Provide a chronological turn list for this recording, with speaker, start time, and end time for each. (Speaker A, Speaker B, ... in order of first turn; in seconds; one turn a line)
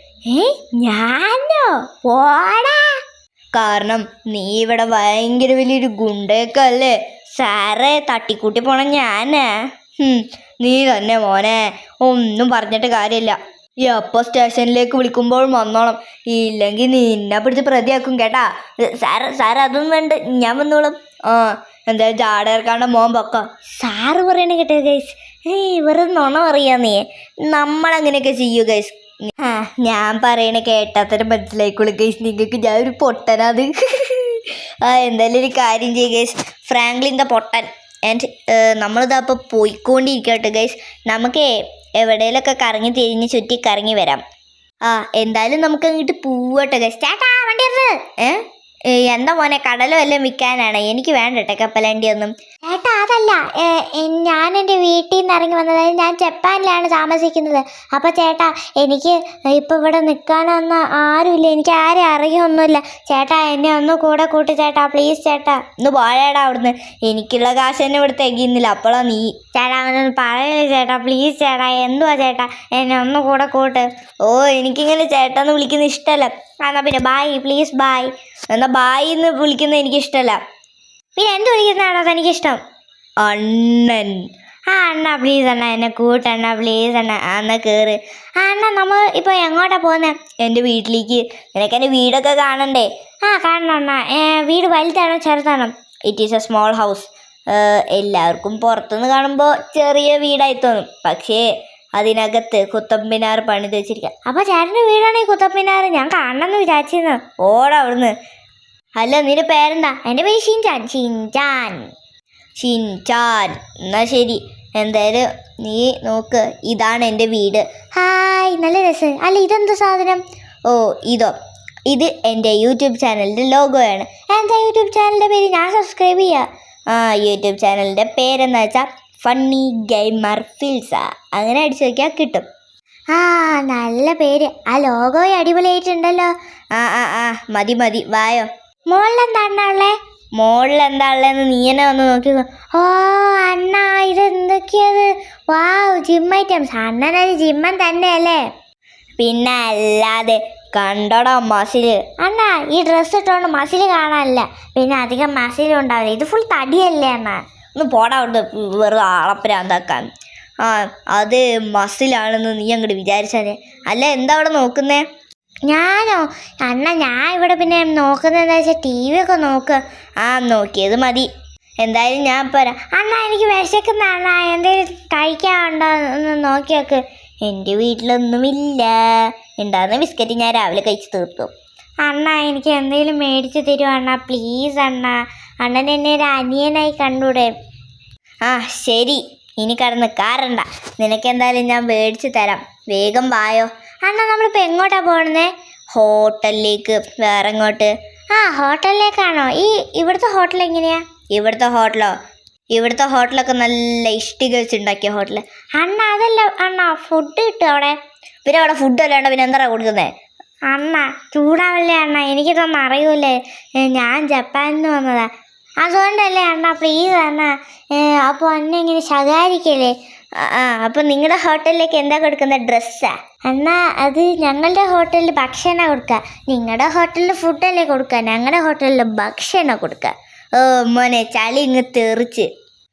Speaker A: 0.3-3.0
Speaker B: 3.5-44.2
Speaker A: 23.8-24.4
Speaker B: 44.9-47.1
Speaker A: 47.1-48.0
Speaker B: 48.2-52.3
Speaker A: 52.7-65.6
Speaker B: 65.8-69.4
Speaker A: 69.5-73.9
Speaker B: 74.2-80.4
Speaker A: 77.2-77.8
Speaker A: 81.2-82.6
Speaker B: 83.2-84.2
Speaker A: 84.7-87.1
Speaker B: 87.0-88.0
Speaker A: 88.4-90.2
Speaker B: 90.4-92.9
Speaker A: 93.2-95.7
Speaker B: 96.1-101.4
Speaker B: 102.0-104.2
Speaker A: 104.3-107.2
Speaker B: 107.4-108.1
Speaker B: 109.0-110.0
Speaker A: 110.0-111.8
Speaker B: 112.6-117.7
Speaker A: 118.0-120.2
Speaker B: 120.7-121.3
Speaker B: 121.9-124.1
Speaker A: 124.3-126.5
Speaker B: 126.9-132.4
Speaker A: 133.1-136.3
Speaker B: 136.8-138.5
Speaker A: 138.9-140.0
Speaker B: 140.4-142.4
Speaker A: 142.7-148.4
Speaker B: 149.2-152.1
Speaker A: 152.2-157.4
Speaker B: 157.8-160.1
Speaker B: 160.6-165.0
Speaker A: 165.7-169.8
Speaker B: 170.2-171.3
Speaker B: 171.8-172.9
Speaker A: 172.9-177.0
Speaker B: 177.4-181.5
Speaker A: 182.0-187.5
Speaker B: 188.4-193.7
Speaker A: 194.0-195.5
Speaker B: 195.9-197.9
Speaker A: 198.3-201.0
Speaker B: 201.3-202.1
Speaker B: 202.7-205.4
Speaker A: 205.8-208.0
Speaker B: 208.4-210.1
Speaker A: 210.7-215.3
Speaker A: 215.8-219.9
Speaker B: 220.4-223.1
Speaker A: 223.5-230.1
Speaker B: 230.6-232.5